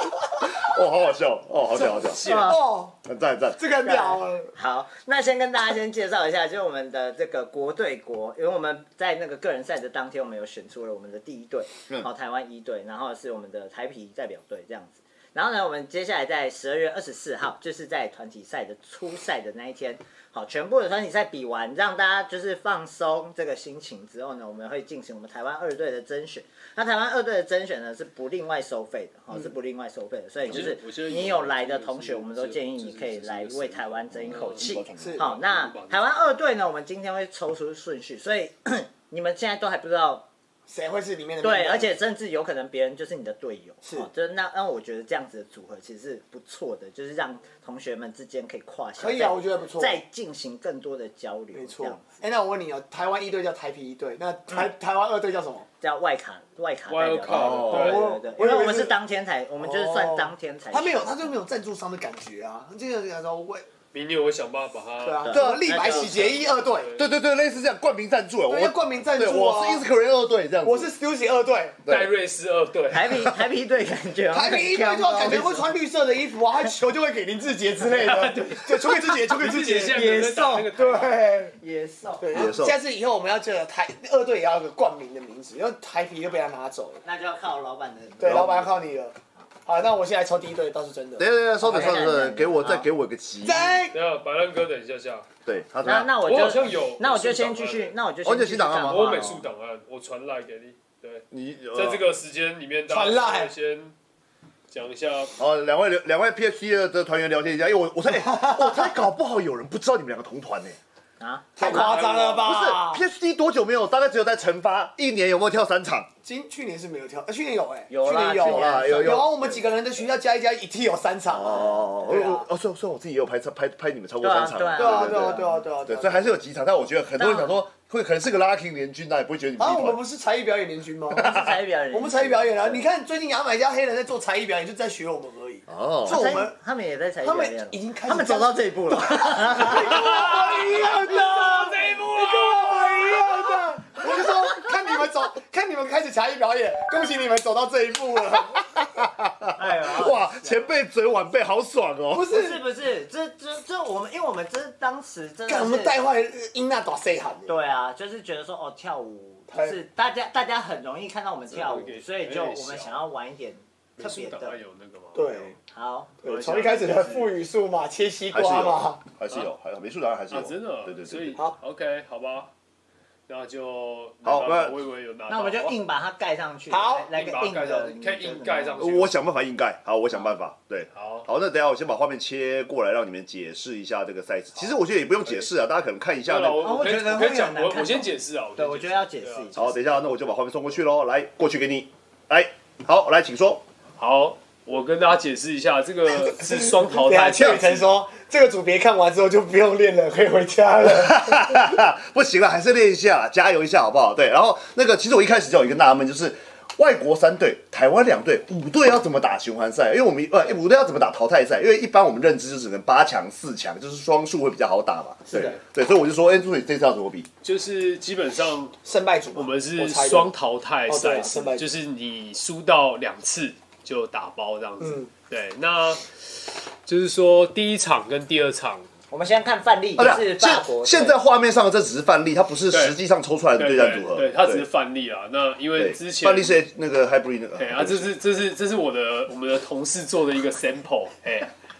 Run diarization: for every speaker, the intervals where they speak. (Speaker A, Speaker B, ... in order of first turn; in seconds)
Speaker A: 0.5-2.3, 3.0-3.6, 34.6-35.2, 57.2-58.0, 65.3-65.9, 67.0-70.9, 71.8-72.1, 82.3-82.8, 88.2-88.7, 91.2-93.8, 95.5-96.1, 98.2-99.2, 101.3-102.0, 105.4-110.8, 112.3-116.1, 118.4-119.6, 121.3-130.0, 131.2-131.6, 135.7-136.4, 148.8-152.3, 168.3-171.4, 174.2-174.7, 178.8-186.8, 189.5-193.6, 200.8-217.3, 230.0-234.7, 235.7-238.1
Speaker B: 1.7-2.6, 30.5-36.3, 56.9-58.0, 63.9-67.1, 71.9-73.1, 77.8-81.2, 93.9-95.3, 96.2-97.9, 98.8-103.9, 104.7-105.3, 111.6-112.4, 139.7-143.3, 161.5-162.9, 164.0-165.5, 170.3-172.5, 173.3-175.8, 177.1-179.2, 180.9-181.3, 186.2-189.7, 194.0-197.9, 217.4-218.8, 219.3-228.9, 232.7-233.0, 233.6-236.6, 237.6-241.5
Speaker C: 2.2-2.6, 3.8-40.2, 41.4-52.2, 55.8-61.4, 65.2-66.3, 72.9-75.7, 80.0-82.2, 87.0-88.6, 91.6-92.8, 95.8-99.4, 111.2-112.0, 117.9-119.2, 124.2-125.6, 127.2-127.6, 131.2-132.8, 136.1-140.3, 149.6-150.7, 152.3-156.0, 157.5-164.6, 165.7-167.3, 175.3-178.8, 186.6-189.6, 229.1-231.2
Speaker D: 2.3-3.0, 3.6-4.5, 35.0-35.3, 40.7-41.9, 43.8-44.1, 49.0-50.0, 51.5-55.7, 57.7-58.9, 59.6-63.6, 65.0-66.9, 68.5-69.8, 70.6-71.8, 74.3-81.5, 82.2-87.0, 88.2-89.1, 89.7-91.3, 93.4-94.0, 102.9-103.5, 108.2-108.7, 111.6-113.0, 116.2-122.5, 124.8-126.3, 129.6-131.3, 131.9-136.6, 137.2-148.7, 152.1-152.6, 155.5-157.6, 159.5-159.8, 165.1-165.6, 166.2-169.0, 176.7-177.1, 196.1-201.7, 218.8-220.3, 220.9-221.7, 224.8-225.1